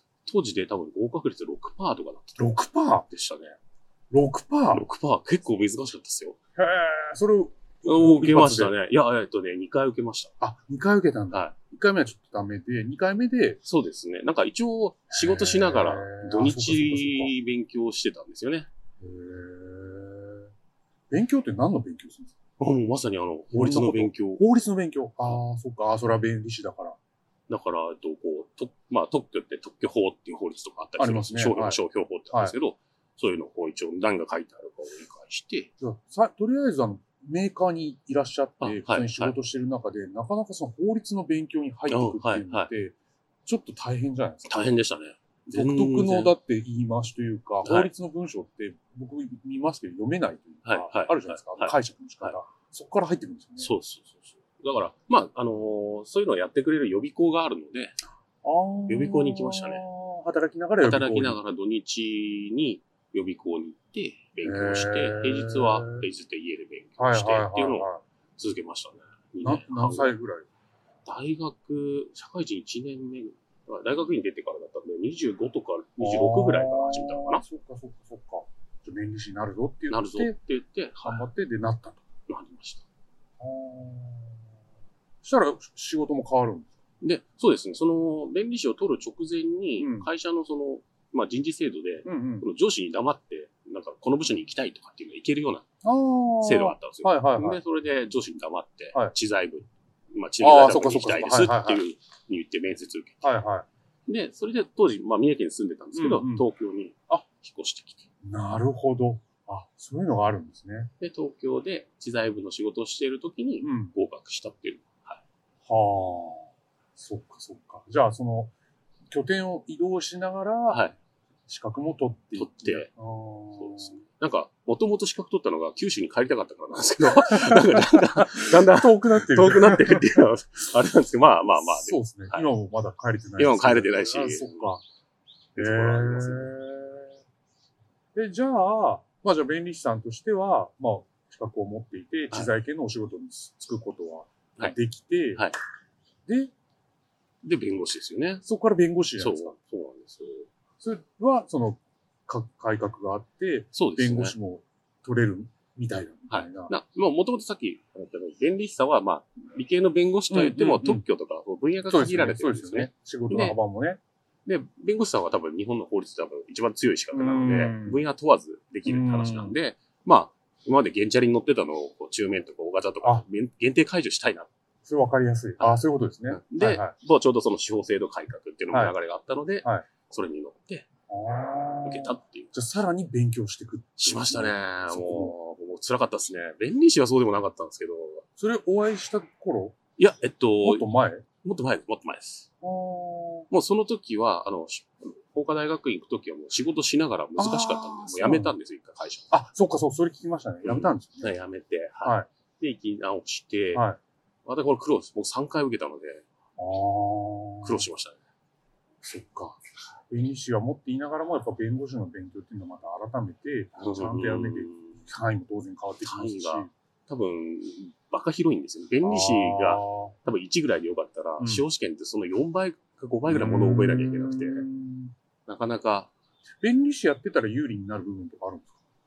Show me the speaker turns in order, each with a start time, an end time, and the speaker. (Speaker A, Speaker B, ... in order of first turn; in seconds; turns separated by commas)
Speaker A: 0.2-3.6, Speaker B: 2.4-3.1, Speaker B: 4.1-4.8, Speaker A: 4.7-6.4, Speaker B: 6.6-8.7, Speaker A: 7.8-10.3, Speaker B: 10.4-13.6, Speaker A: 13.7-18.7, Speaker B: 15.1-17.3, Speaker B: 19.0-20.5, Speaker B: 21.1-22.3, Speaker A: 22.6-24.4, Speaker B: 23.5-27.0, Speaker A: 27.5-35.7, Speaker B: 31.0-31.8, Speaker B: 35.8-43.0, Speaker A: 38.6-39.4, Speaker A: 41.9-42.7, Speaker B: 43.5-44.8, Speaker A: 44.5-46.4, Speaker B: 45.5-53.7, Speaker A: 47.6-47.9, Speaker A: 50.7-52.4, Speaker A: 53.6-58.0, Speaker B: 58.4-61.4, Speaker A: 58.9-59.9, Speaker A: 60.8-70.1, Speaker B: 64.4-66.1, Speaker B: 67.0-68.0, Speaker B: 69.4-70.5, Speaker A: 71.0-77.4, Speaker B: 76.0-80.4, Speaker A: 79.9-81.2, Speaker B: 81.0-82.0, Speaker A: 82.3-82.8, Speaker B: 83.4-84.4, Speaker B: 85.2-86.7, Speaker A: 87.0-95.7, Speaker B: 89.8-90.1, Speaker B: 92.0-92.5, Speaker B: 95.8-97.6, Speaker A: 96.4-103.2, Speaker B: 100.4-101.8, Speaker B: 103.2-103.7, Speaker A: 104.1-108.1, Speaker B: 106.0-106.5, Speaker B: 108.2-110.9, Speaker A: 111.0-115.2, Speaker B: 113.6-114.0, Speaker B: 115.7-118.5, Speaker B: 119.1-120.8, Speaker A: 120.7-121.0, Speaker B: 121.5-124.0, Speaker A: 122.4-122.9, Speaker A: 123.6-132.5, Speaker B: 127.2-130.2, Speaker B: 131.7-134.8, Speaker A: 133.4-134.7, Speaker A: 135.6-136.6, Speaker B: 135.6-137.1, Speaker B: 138.2-145.5, Speaker B: 146.3-146.5, Speaker A: 147.4-148.4, Speaker B: 148.4-149.5, Speaker A: 149.2-150.5, Speaker B: 150.8-156.7, Speaker A: 153.7-154.4, Speaker A: 156.3-163.6, Speaker B: 160.3-161.0, Speaker B: 161.9-164.0, Speaker A: 164.5-174.5, Speaker B: 167.1-168.0, Speaker B: 168.9-169.6, Speaker B: 174.8-176.9, Speaker A: 175.6-180.9, Speaker B: 181.1-185.3, Speaker A: 181.8-182.5, Speaker A: 184.0-188.2, Speaker B: 188.4-189.8, Speaker A: 190.0-190.9, Speaker B: 190.6-191.3, Speaker A: 191.4-192.5, Speaker B: 192.6-193.5, Speaker A: 193.5-199.3, Speaker B: 197.4-198.6, Speaker B: 199.3-201.4, Speaker A: 200.6-203.9, Speaker B: 203.7-204.0, Speaker A: 204.4-206.2, Speaker B: 206.6-207.8, Speaker A: 207.6-208.2, Speaker B: 209.0-216.7, Speaker A: 213.8-215.1, Speaker A: 216.0-224.7, Speaker B: 219.0-220.2, Speaker B: 221.4-221.7, Speaker B: 223.3-225.2, Speaker A: 225.5-226.1, Speaker B: 226.6-228.7